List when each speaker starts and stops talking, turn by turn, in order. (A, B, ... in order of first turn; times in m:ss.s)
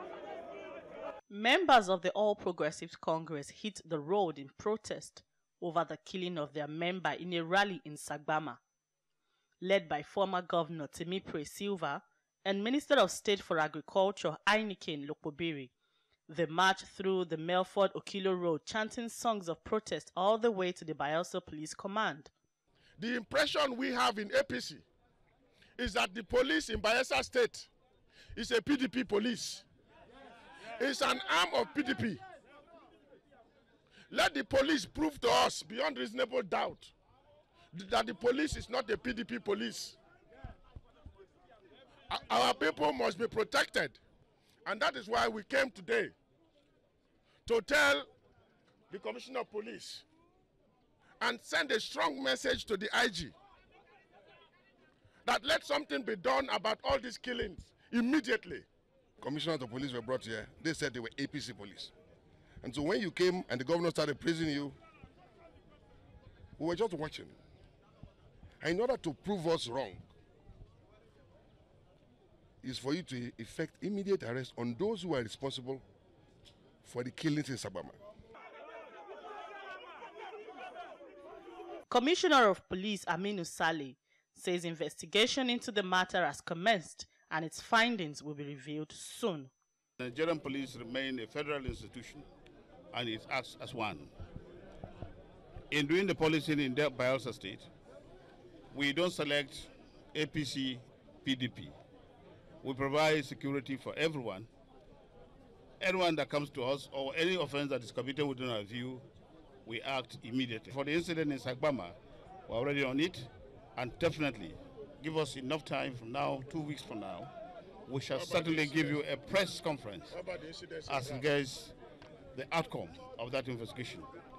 0:01.3-0:08.6 A
0:09.6-0:15.7 A
0:16.3-0:22.3 A
0:23.0-0:24.8 B
0:25.8-0:27.7 B
0:28.3-0:29.6 B
0:30.8-0:32.2 B
0:34.1-0:36.9 B
0:37.7-0:40.0 B
0:42.1-0:44.0 B
0:44.6-0:46.1 B
0:47.4-0:48.1 B
0:48.9-0:50.0 B
0:51.2-0:53.3 B
0:55.2-0:58.6 B
0:59.2-1:01.9 C
1:02.6-1:04.8 C
1:06.6-1:07.4 C
1:08.6-1:10.1 C
1:12.6-1:15.8 C
1:16.8-1:18.0 C
1:21.9-1:29.5 A
1:30.0-1:32.3 D
1:32.9-1:34.1 D
1:35.7-1:37.7 D
1:38.7-1:41.7 D
1:42.6-1:44.5 D
1:45.8-1:49.0 D
1:49.6-1:52.0 D
1:52.5-1:57.3 D
1:57.9-2:00.1 D
1:58.1-1:59.0 B
2:00.1-2:01.3 B
2:00.9-2:01.7 D
2:02.3-2:04.1 D